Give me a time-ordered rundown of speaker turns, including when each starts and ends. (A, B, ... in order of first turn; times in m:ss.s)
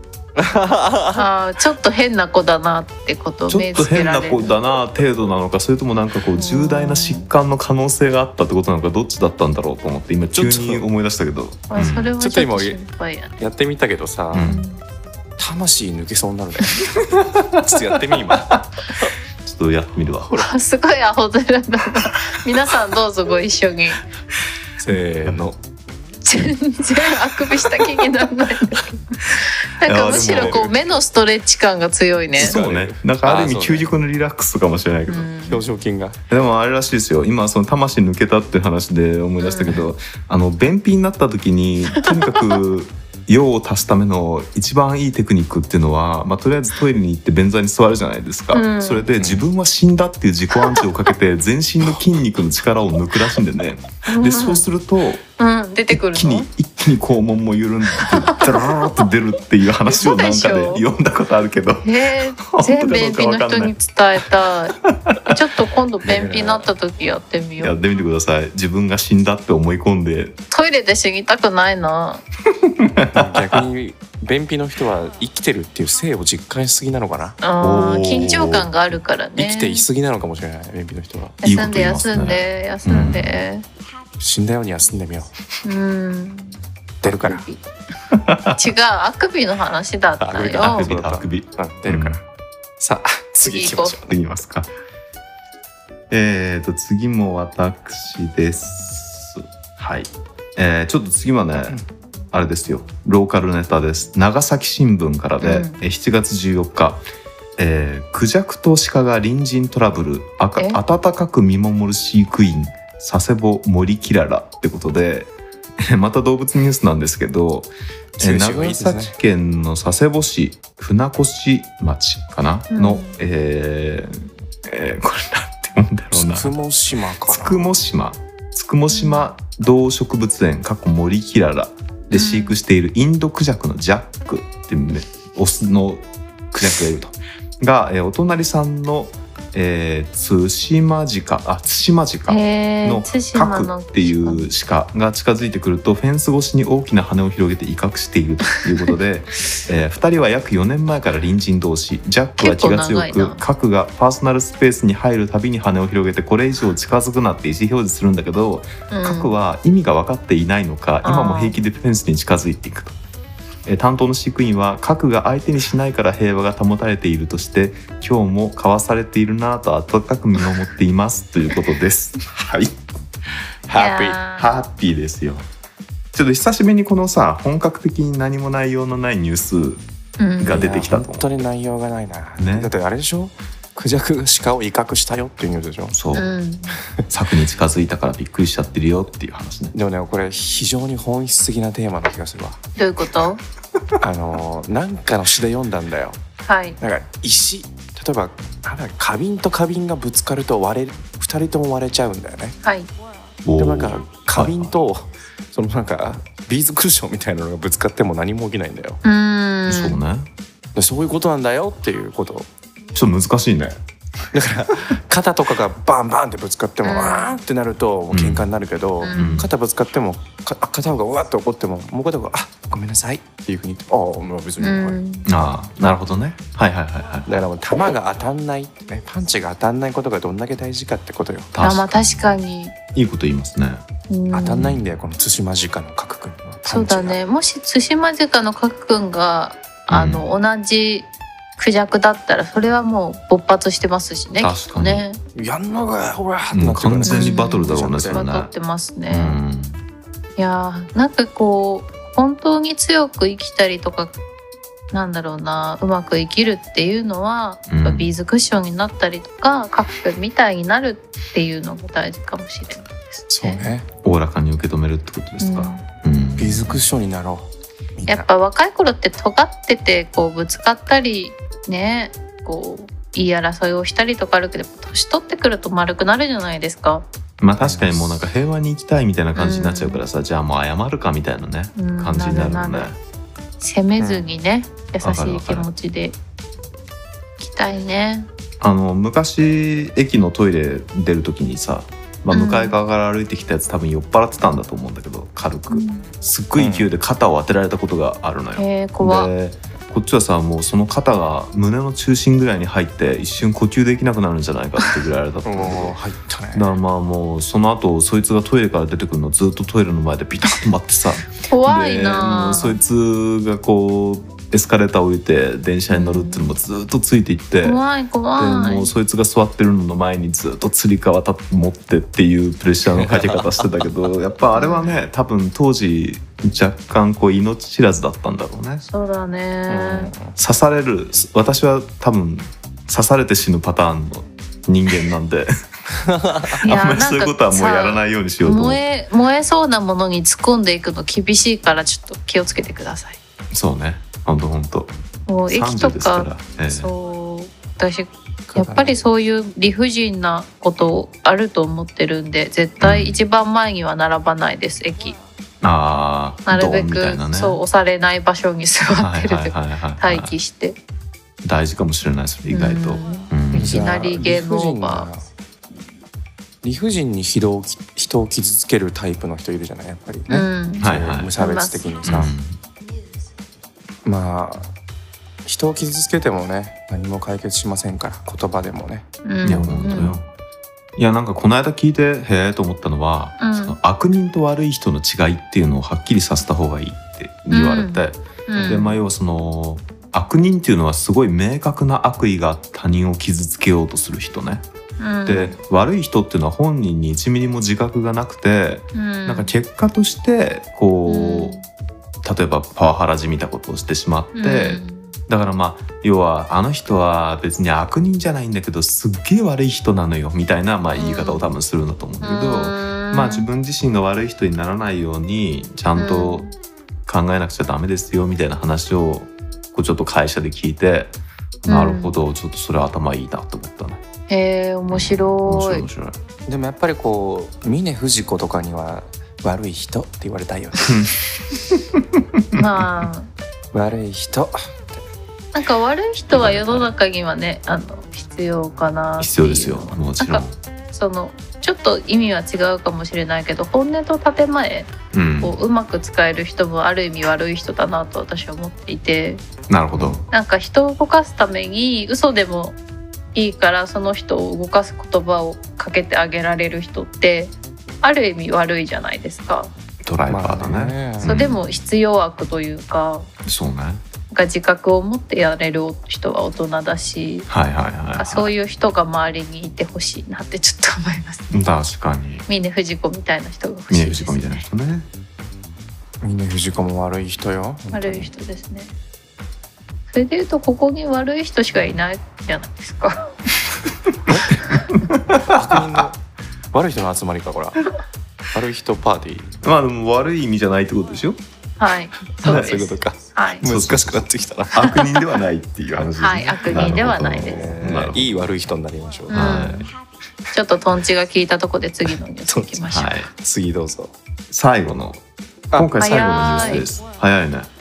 0:00.4-0:01.2 A
0:01.1-0:04.6 B
0:03.5-0:12.1 C
0:06.4-0:07.3 B
0:10.3-0:10.8 A
0:11.7-0:13.4 B
0:12.2-0:12.8 A
0:13.4-0:14.5 A
0:14.3-0:14.6 C
0:14.4-0:14.8 B
0:15.4-0:19.1 A
0:17.2-0:18.6 C
0:19.4-0:20.5 C
0:20.3-0:24.0 B
0:24.8-0:25.6 A
0:26.2-0:32.5 B
0:29.8-0:30.8 C
0:30.3-0:30.6 A
0:32.3-0:33.9 A
0:32.4-0:35.3 C
0:35.1-0:35.6 B
0:35.4-0:36.2 A
0:36.3-0:55.2 C
0:39.4-0:39.8 B
0:42.0-0:42.6 B
0:48.5-0:49.1 B
0:49.1-0:49.5 A
0:54.0-0:54.6 B
0:55.4-0:56.5 B
0:55.9-1:03.7 C
0:58.0-0:58.5 B
0:59.8-1:00.8 B
1:01.8-1:04.8 B
1:04.8-1:05.4 C
1:05.3-1:07.8 B
1:06.0-1:06.7 A
1:07.6-1:10.4 C
1:10.5-1:12.2 B
1:12.5-1:13.6 C
1:13.1-1:17.4 A
1:17.4-1:19.8 B
1:17.6-1:18.7 C
1:19.4-1:21.4 A
1:21.4-1:23.6 B
1:21.4-1:23.4 C
1:24.2-1:25.4 A
1:25.6-1:26.6 B
1:27.0-1:27.4 A
1:27.1-1:27.6 B
1:28.1-1:28.6 C
1:28.5-1:30.9 B
1:30.2-1:32.2 A
1:30.6-1:32.2 C
1:32.8-1:34.2 A
1:33.4-1:34.0 B
1:34.0-1:34.7 C
1:36.1-1:41.8 C
1:42.3-1:47.0 C
1:45.4-1:45.8 B
1:47.6-2:06.5 C
1:58.2-1:59.1 A
2:02.7-2:03.2 B
2:06.1-2:07.7 A
2:07.3-2:43.0 C
2:08.9-2:09.3 B
2:12.1-2:12.6 B
2:22.3-2:24.5 B
2:32.4-2:33.4 B
2:38.9-2:39.3 B
2:41.0-2:41.6 B
2:43.6-2:52.8 C
2:53.7-2:54.2 A
2:53.7-2:54.5 B
2:54.3-2:55.4 C
2:56.1-2:59.8 C
3:00.2-3:00.6 B
3:00.4-3:01.4 C
3:00.5-3:06.0 A
3:02.4-3:02.7 C
3:05.9-3:06.3 C
3:06.1-3:06.8 B
3:07.1-3:09.7 C
3:09.7-3:12.6 A
3:12.8-3:13.4 B
3:14.0-3:16.2 A
3:16.4-3:16.8 B
3:16.8-3:22.6 A
3:22.6-3:22.9 B
3:23.4-3:24.7 C
3:23.6-3:29.0 A
3:29.0-3:30.0 B
3:29.7-3:30.3 C
3:30.7-3:32.5 A
3:32.9-3:33.8 C
3:34.3-3:45.0 A
3:36.8-3:37.3 B
3:38.1-3:38.5 C
3:39.0-3:39.4 B
3:39.1-3:39.5 C
3:44.6-3:45.3 B
3:45.2-3:47.3 C
3:47.2-3:51.5 A
3:51.5-3:52.4 C
3:51.6-3:52.7 B
3:52.9-3:53.8 C
3:54.1-3:54.6 B
3:54.3-3:57.2 A
3:56.6-4:05.2 B
3:59.9-4:00.3 C
4:04.4-4:05.0 C
4:05.3-4:08.2 A
4:06.5-4:08.5 C
4:07.0-4:09.4 B
4:09.1-4:09.8 C
4:10.4-4:14.1 B
4:14.9-4:23.6 B
4:17.7-4:18.1 C
4:23.3-4:23.9 A
4:24.0-4:26.8 C
4:25.4-4:25.8 B
4:26.4-4:28.3 A
4:28.1-4:37.0 B
4:37.4-4:43.0 C
4:37.6-4:38.2 A
4:39.3-4:40.0 B
4:41.8-4:42.9 B
4:43.6-4:46.1 B
4:44.0-4:44.3 A
4:45.0-4:45.7 C
4:47.4-4:48.3 B
4:48.6-5:06.0 C
4:52.3-4:52.8 B
4:55.7-4:56.1 B
4:56.6-4:56.9 A
4:58.6-4:59.3 B
5:05.4-5:06.7 A
5:06.5-5:17.8 C
5:11.4-5:12.8 B
5:15.9-5:16.5 B
5:17.6-5:18.9 B
5:18.4-5:28.8 C
5:23.0-5:23.7 A
5:24.5-5:24.9 B
5:28.9-5:30.1 B
5:29.7-5:30.4 A
5:30.4-5:35.5 C
5:36.0-5:36.5 A
5:36.6-5:38.8 C
5:36.6-5:43.2 B
5:43.5-5:44.9 C
5:45.3-5:55.2 B
5:45.5-5:46.9 C
5:48.5-5:49.0 A
5:52.8-5:53.2 C
5:55.6-5:57.6 C
5:56.4-6:00.8 B
5:58.9-6:00.3 C
6:01.4-6:04.0 C
6:02.5-6:05.1 B
6:03.5-6:05.2 A
6:06.6-6:12.3 A
6:10.3-6:10.8 B
6:10.8-6:11.3 C
6:11.4-6:11.9 B
6:12.0-6:12.6 C
6:14.0-6:14.7 A
6:15.4-6:19.6 A
6:19.2-6:20.2 B
6:19.4-6:20.2 C
6:21.0-6:34.6 C
6:23.4-6:23.8 B
6:27.5-6:29.0 B
6:28.5-6:28.8 A
6:35.0-6:35.6 B
6:35.2-6:41.5 C
6:38.9-6:39.5 B
6:41.0-6:41.6 B
6:42.2-6:56.5 C
6:44.3-6:45.1 B
6:51.0-6:51.5 B
6:52.2-6:53.4 B
6:56.0-6:56.5 B
6:57.0-7:01.1 C
7:01.6-7:04.0 C
7:01.7-7:02.2 B
7:04.3-7:05.8 B
7:04.9-7:06.2 C
7:06.5-7:11.1 A
7:10.8-7:11.1 C
7:11.7-7:13.0 C
7:12.5-7:13.3 B
7:13.7-7:15.0 A
7:15.5-7:29.4 B
7:16.3-7:16.9 C
7:19.2-7:20.5 C
7:25.1-7:25.6 C
7:29.7-7:30.2 C
7:30.3-7:32.8 B
7:33.3-7:39.7 B
7:40.0-7:41.6 C
7:40.3-7:41.5 A
7:41.2-7:43.3 B
7:43.4-7:44.0 C
7:44.3-7:47.5 B
7:47.5-7:48.5 C
7:48.1-7:51.7 B
7:51.5-7:52.4 C
7:52.5-7:54.6 B
7:53.9-7:55.1 C
7:56.2-7:58.3 A
7:57.9-7:58.9 B
8:00.1-8:03.3 B
8:04.3-8:04.6 A
8:04.7-8:06.1 C
8:05.5-8:06.2 A
8:06.7-8:07.9 A
8:08.5-8:09.6 A
8:09.6-8:11.4 C
8:11.8-8:13.6 B
8:12.3-8:15.2 A
8:12.4-8:12.9 C
8:13.6-8:18.6 C
8:16.2-8:17.7 B
8:16.6-8:19.8 A
8:19.3-8:19.9 B
8:19.3-8:19.9 C
8:20.5-8:23.1 B
8:22.5-8:22.8 A
8:22.9-8:23.3 C
8:23.3-8:24.1 A
8:24.5-8:25.2 C
8:25.7-8:26.9 A
8:25.7-8:27.7 C
8:26.0-8:26.9 B